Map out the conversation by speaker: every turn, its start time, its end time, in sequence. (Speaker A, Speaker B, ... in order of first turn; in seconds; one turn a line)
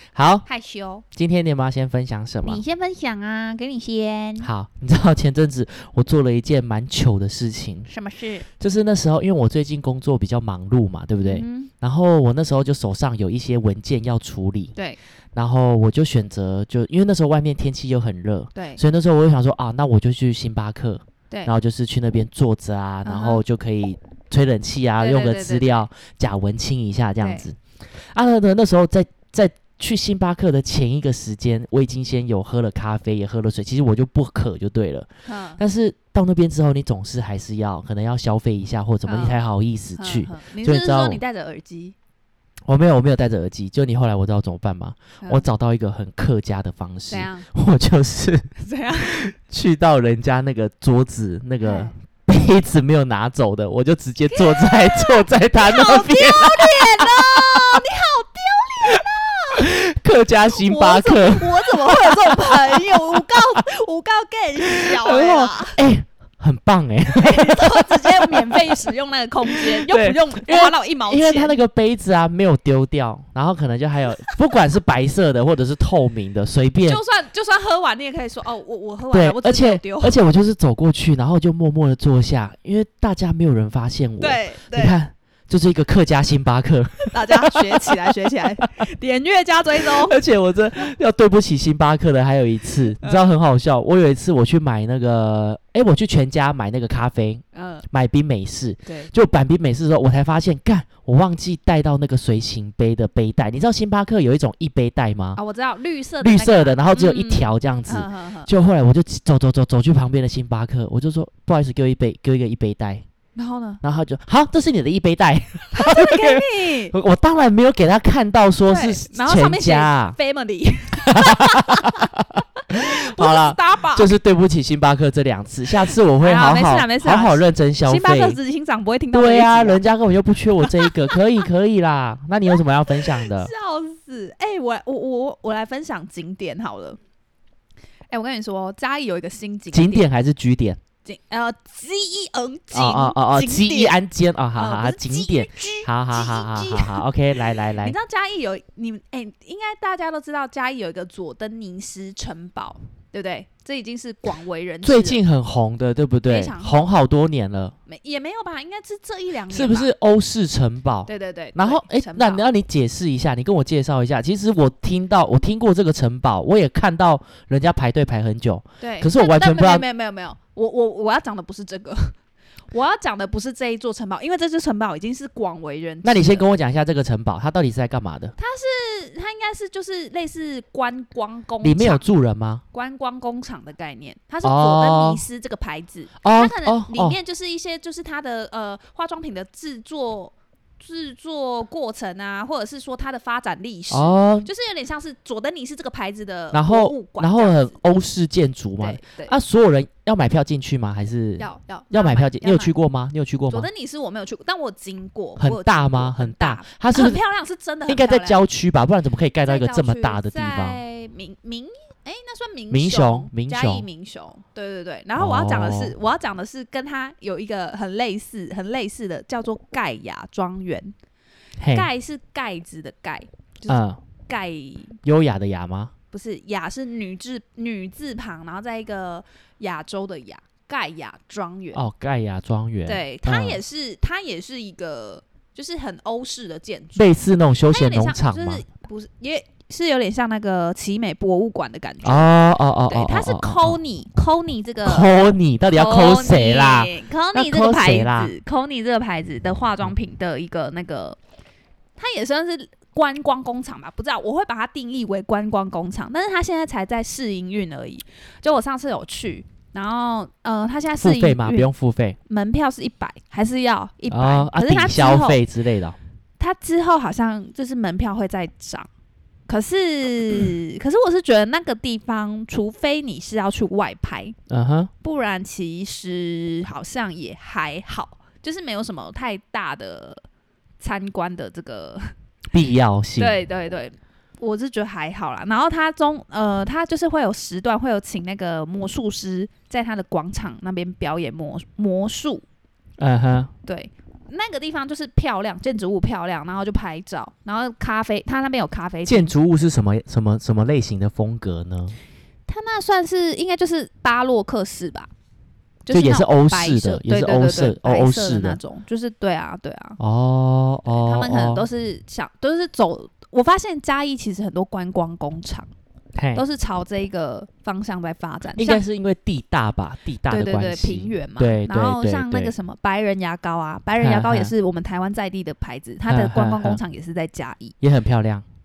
Speaker A: 0.1-0.5
Speaker B: 0.5-1.0
Speaker A: 1.1-2.6
Speaker B: 2.4-4.5
Speaker A: 4.4-7.9
Speaker B: 7.9-8.5
Speaker A: 8.6-14.7
Speaker B: 11.2-11.7
Speaker A: 15.3-27.6
Speaker B: 18.5-18.8
Speaker B: 23.0-23.4
Speaker B: 25.0-25.7
Speaker B: 27.2-27.4
Speaker A: 28.1-41.2
Speaker B: 35.2-35.6
Speaker B: 39.0-39.4
Speaker B: 40.0-41.9
Speaker A: 42.6-57.8
Speaker B: 47.1-47.5
Speaker B: 48.6-49.2
Speaker B: 51.6-51.9
Speaker B: 54.3-59.7
Speaker A: 59.5-63.6
Speaker B: 60.5-65.8
Speaker A: 64.8-68.9
Speaker B: 67.1-71.5
Speaker A: 69.5-77.0
Speaker B: 76.8-80.2
Speaker A: 79.1-88.1
Speaker B: 84.2-85.0
Speaker B: 87.1-90.2
Speaker A: 89.8-105.4
Speaker B: 97.5-97.8
Speaker B: 98.8-99.1
Speaker B: 105.3-108.5
Speaker A: 106.2-113.0
Speaker B: 113.3-113.8
Speaker A: 113.8-120.2
Speaker B: 115.7-116.9
Speaker B: 118.7-122.1
Speaker A: 121.1-128.4
Speaker B: 122.7-124.1
Speaker B: 126.2-129.8
Speaker A: 129.1-133.5
Speaker B: 130.6-131.1
Speaker B: 133.2-137.0
Speaker B: 138.1-140.1
Speaker A: 139.7-140.8
Speaker B: 141.0-143.9
Speaker A: 142.7-147.9
Speaker B: 144.6-147.0
Speaker B: 147.8-155.2
Speaker A: 154.8-157.7
Speaker B: 156.3-156.8
Speaker B: 157.9-159.9
Speaker A: 159.5-169.8
Speaker B: 161.1-162.4
Speaker B: 168.8-172.2
Speaker B: 172.7-176.5
Speaker A: 176.0-178.3
Speaker B: 178.4-182.0
Speaker A: 181.6-182.6
Speaker B: 182.7-197.7
Speaker A: 184.4-185.2
Speaker A: 186.2-187.2
Speaker A: 193.9-194.5
Speaker A: 196.5-203.7
Speaker B: 198.8-199.3
Speaker B: 201.4-202.7
Speaker B: 203.5-208.4
Speaker A: 205.4-207.2
Speaker A: 207.9-210.8
Speaker B: 209.4-220.9
Speaker A: 212.7-213.9
Speaker A: 215.2-215.9
Speaker A: 221.6-221.9
Speaker B: 221.7-225.0
Speaker A: 223.7-224.0
Speaker A: 225.0-225.9
Speaker B: 226.1-231.8
Speaker A: 231.7-233.6
Speaker B: 232.8-237.1
Speaker A: 236.9-238.6
Speaker B: 237.7-242.3
Speaker A: 242.0-243.8
Speaker B: 242.9-251.2
Speaker A: 244.8-248.3
Speaker B: 252.0-261.7
Speaker A: 261.0-262.2
Speaker B: 262.3-265.4
Speaker A: 264.1-266.0
Speaker B: 266.4-268.9
Speaker B: 269.5-274.4
Speaker A: 274.5-274.9
Speaker B: 275.0-280.2
Speaker B: 280.8-282.1
Speaker A: 282.5-283.3
Speaker B: 283.2-292.4
Speaker A: 293.0-293.5
Speaker B: 293.6-299.3
Speaker A: 299.1-301.9
Speaker B: 302.5-305.1
Speaker B: 305.8-310.0
Speaker A: 305.9-308.6
Speaker A: 310.0-311.6
Speaker B: 310.9-315.7
Speaker A: 316.1-316.4
Speaker B: 316.3-318.8
Speaker A: 318.6-322.5
Speaker B: 320.3-327.7
Speaker A: 324.0-324.5
Speaker A: 326.1-326.8
Speaker A: 327.8-328.4